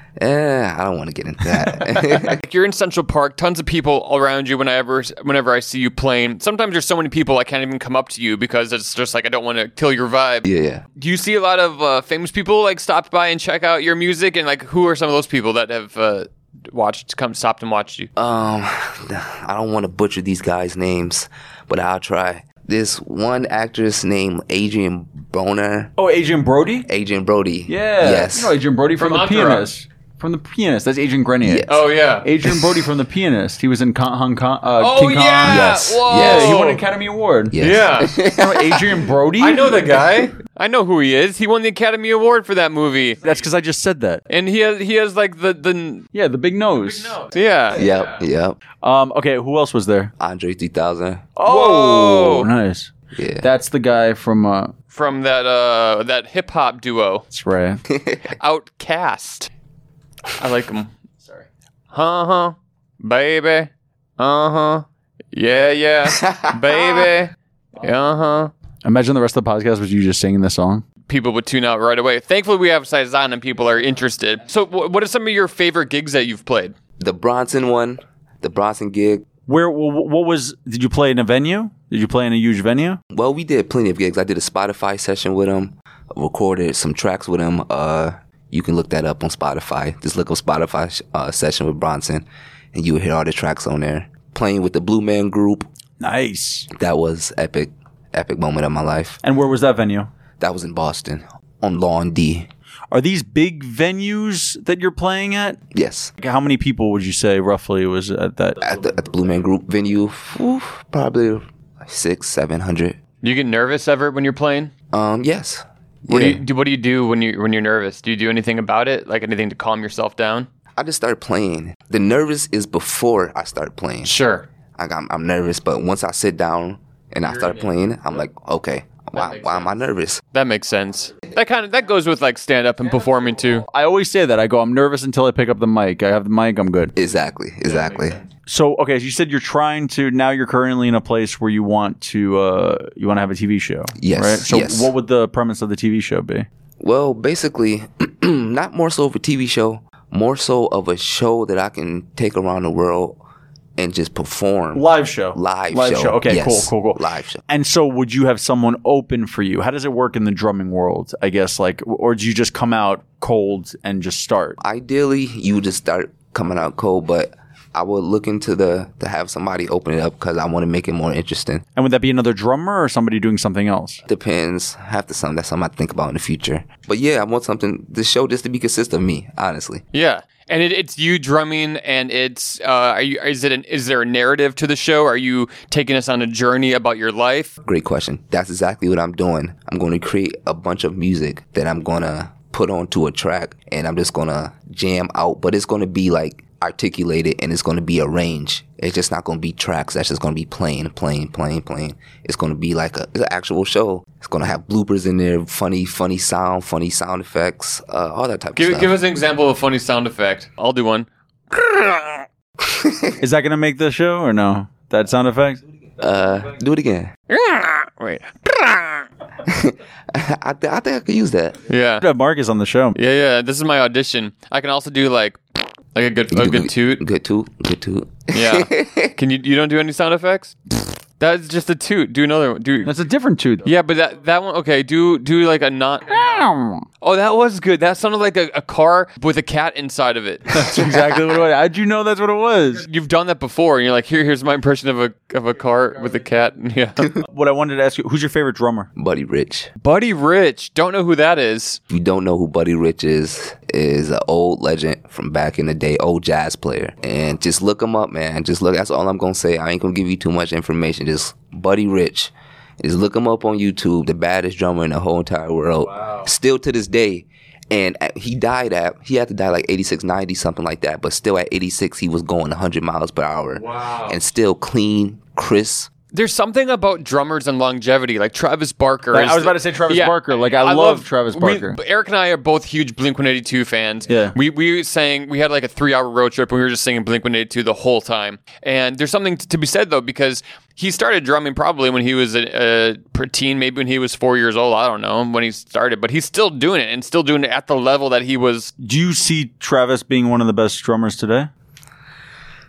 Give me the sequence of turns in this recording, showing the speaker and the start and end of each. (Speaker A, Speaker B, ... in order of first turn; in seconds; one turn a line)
Speaker A: 0.2-2.4
Speaker B: 2.2-18.1
Speaker A: 10.4-10.8
Speaker A: 18.2-25.9
Speaker C: 26.0-26.9
Speaker A: 26.9-28.6
Speaker C: 27.7-31.7
Speaker B: 29.0-29.7
Speaker A: 31.4-31.9
Speaker B: 31.7-32.3
Speaker C: 32.2-37.6
Speaker B: 34.8-36.8
Speaker A: 35.5-36.6
Speaker A: 37.5-39.0
Speaker B: 37.6-38.1
Speaker C: 38.3-39.9
Speaker B: 39.4-43.3
Speaker C: 43.2-44.2
Speaker B: 44.3-46.1
Speaker C: 46.1-47.2
Speaker B: 46.7-48.2
Speaker A: 47.7-48.6
Speaker C: 48.8-50.1
Speaker A: 50.2-51.3
Speaker C: 51.4-54.7
Speaker B: 51.5-52.5
Speaker A: 53.1-53.5
Speaker B: 54.9-57.2
Speaker C: 57.3-57.8
Speaker A: 57.9-58.4
Speaker B: 58.4-59.5
Speaker B: 60.4-60.9
Speaker B: 61.9-68.5
Speaker A: 66.1-67.1
Speaker C: 68.8-70.8
Speaker B: 71.1-76.7
Speaker A: 77.0-79.2
Speaker C: 79.5-83.0
Speaker A: 83.1-95.7
Speaker C: 96.0-96.7
Speaker A: 96.7-99.2
Speaker C: 99.2-100.1
Speaker A: 100.4-102.5
Speaker C: 102.9-105.6
Speaker A: 105.7-106.1
Speaker C: 106.2-108.6
Speaker A: 108.6-113.0
Speaker B: 113.2-114.7
Speaker A: 114.9-116.4
Speaker B: 116.1-120.5
Speaker A: 120.8-124.1
Speaker B: 124.0-124.5
Speaker A: 124.8-130.2
Speaker B: 129.1-129.7
Speaker B: 130.3-133.7
Speaker C: 133.7-136.9
Speaker A: 136.9-138.2
Speaker B: 137.7-138.2
Speaker C: 138.4-146.5
Speaker A: 144.0-144.9
Speaker A: 146.8-153.2
Speaker A: 153.8-157.4
Speaker C: 154.7-164.6
Speaker A: 164.6-171.6
Speaker C: 171.8-174.0
Speaker A: 174.1-179.8
Speaker B: 179.9-187.5
Speaker A: 187.6-209.0
Speaker B: 208.6-212.2
Speaker A: 212.6-213.2
Speaker C: 213.2-215.6
Speaker A: 216.0-217.1
Speaker B: 217.3-219.1
Speaker A: 219.4-221.6
Speaker B: 221.7-222.1
Speaker C: 222.0-223.0
Speaker B: 222.9-225.4
Speaker B: 225.9-227.0
Speaker A: 226.3-229.1
Speaker B: 228.3-230.6
Speaker B: 231.2-232.9
Speaker C: 232.8-233.7
Speaker B: 233.6-236.4
Speaker C: 236.1-236.8
Speaker B: 237.0-241.0
Speaker C: 240.5-242.8
Speaker B: 242.8-247.0
Speaker C: 247.2-248.9
Speaker A: 248.9-249.7
Speaker B: 249.8-251.8
Speaker A: 251.9-275.9
Speaker B: 265.9-266.3
Speaker B: 273.5-274.2
Speaker B: 276.1-298.7
Speaker C: 279.1-281.8
Speaker C: 284.1-284.3
Speaker C: 298.8-301.5